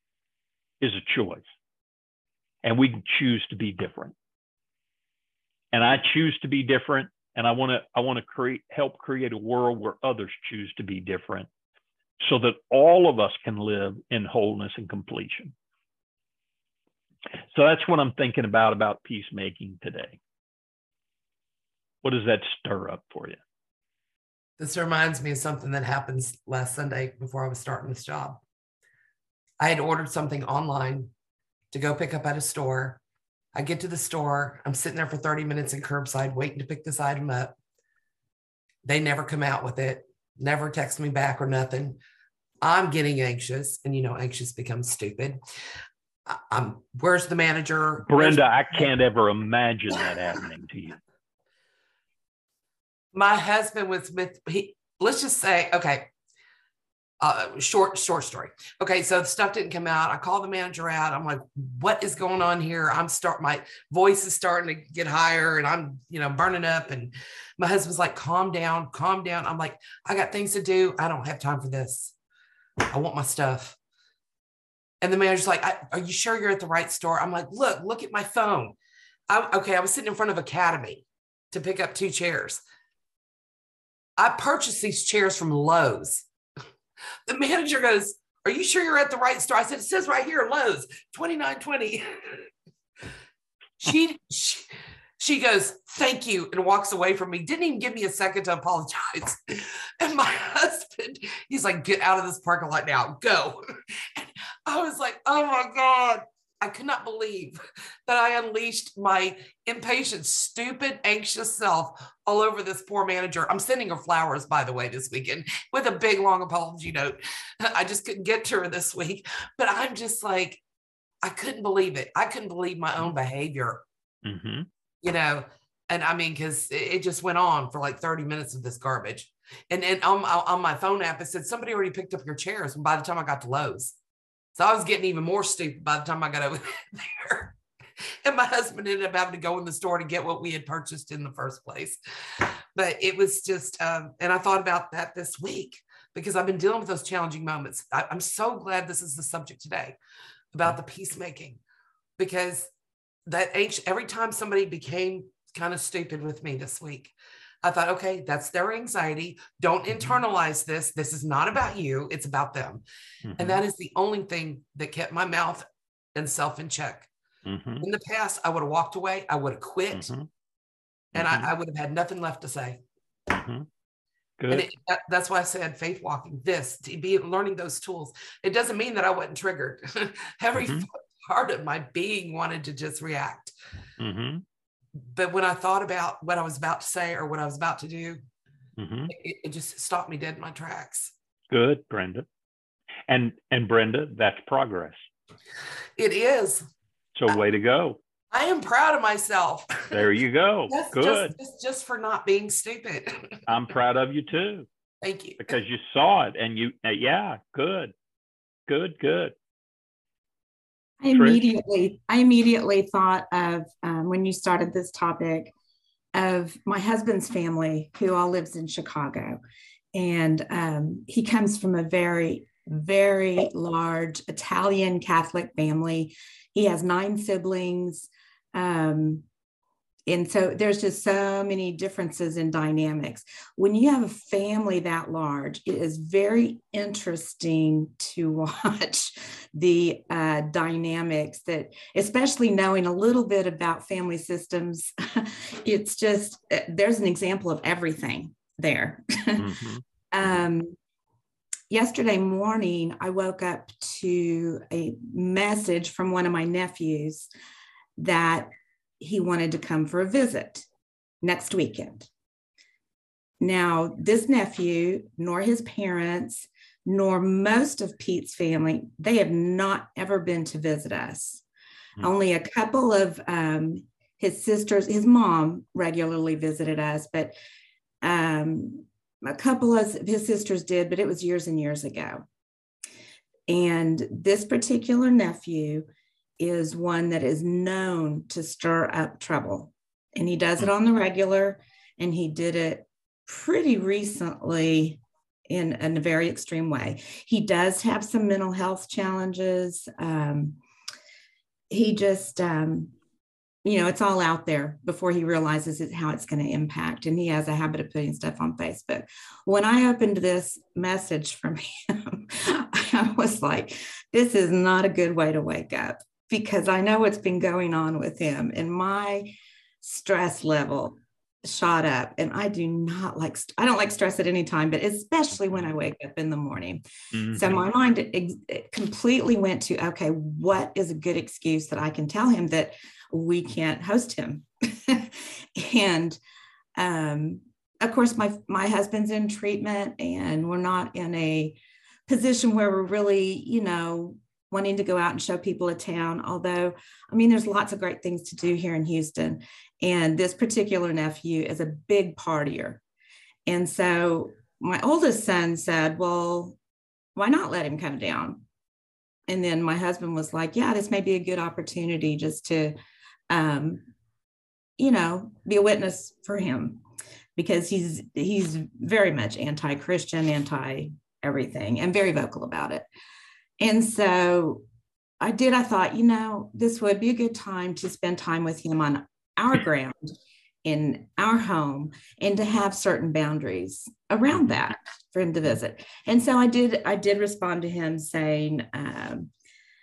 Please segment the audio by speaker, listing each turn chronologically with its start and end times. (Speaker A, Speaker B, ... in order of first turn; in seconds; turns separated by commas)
Speaker A: 0.8-1.4, Speaker A: 2.6-4.1, Speaker A: 5.7-11.5, Speaker A: 12.2-15.5, Speaker A: 17.5-20.2, Speaker A: 22.0-23.4, Speaker B: 24.6-28.4, Speaker B: 29.6-31.1, Speaker B: 31.7-33.0, Speaker B: 33.5-37.5, Speaker B: 38.8-42.0, Speaker B: 42.6-45.4, Speaker B: 46.2-48.4, Speaker A: 48.1-51.0, Speaker B: 53.1-56.1, Speaker B: 57.2-72.1, Speaker B: 72.9-73.8, Speaker B: 75.0-78.8, Speaker B: 79.3-82.6, Speaker B: 84.2-86.2, Speaker B: 87.2-92.5, Speaker B: 93.8-103.6, Speaker B: 104.1-120.6, Speaker B: 121.2-123.8, Speaker A: 124.2-124.7, Speaker B: 125.0-133.9, Speaker B: 134.5-137.6, Speaker B: 138.2-150.0, Speaker B: 150.5-151.6, Speaker B: 152.2-152.7, Speaker B: 153.2-162.8, Speaker A: 163.2-163.6, Speaker B: 163.4-167.1, Speaker A: 167.4-167.8, Speaker B: 167.8-170.1, Speaker A: 169.9-170.3, Speaker B: 171.1-172.8, Speaker A: 171.1-171.5, Speaker A: 173.3-173.7, Speaker A: 174.4-174.7, Speaker B: 174.5-183.5, Speaker A: 180.6-180.8, Speaker A: 184.0-184.4, Speaker B: 185.1-188.2, Speaker A: 188.8-189.1, Speaker B: 189.1-191.1, Speaker A: 191.5-192.2, Speaker A: 193.1-195.1, Speaker B: 196.0-196.7, Speaker A: 197.1-198.0, Speaker B: 198.3-200.1, Speaker A: 199.9-201.3, Speaker B: 200.7-203.4, Speaker A: 203.5-204.7, Speaker B: 205.0-205.4, Speaker A: 205.4-207.9, Speaker A: 208.7-209.3, Speaker C: 211.0-215.5, Speaker A: 211.1-211.4, Speaker C: 216.1-219.4, Speaker C: 219.9-229.2, Speaker C: 230.1-249.5, Speaker A: 249.4-249.8, Speaker C: 250.1-250.8, Speaker C: 251.7-257.3, Speaker C: 258.0-260.6, Speaker C: 261.2-262.1, Speaker C: 263.4-271.4, Speaker C: 272.0-277.3, Speaker C: 278.0-282.2, Speaker C: 283.5-285.9, Speaker C: 286.4-300.6, Speaker C: 301.7-302.9, Speaker C: 303.6-336.2, Speaker A: 327.1-327.6, Speaker C: 336.8-352.8, Speaker C: 353.4-356.6, Speaker C: 357.1-358.4, Speaker C: 359.3-362.8, Speaker C: 363.3-363.9, Speaker C: 364.8-366.8, Speaker C: 367.4-372.9, Speaker C: 373.6-374.6, Speaker C: 375.2-389.3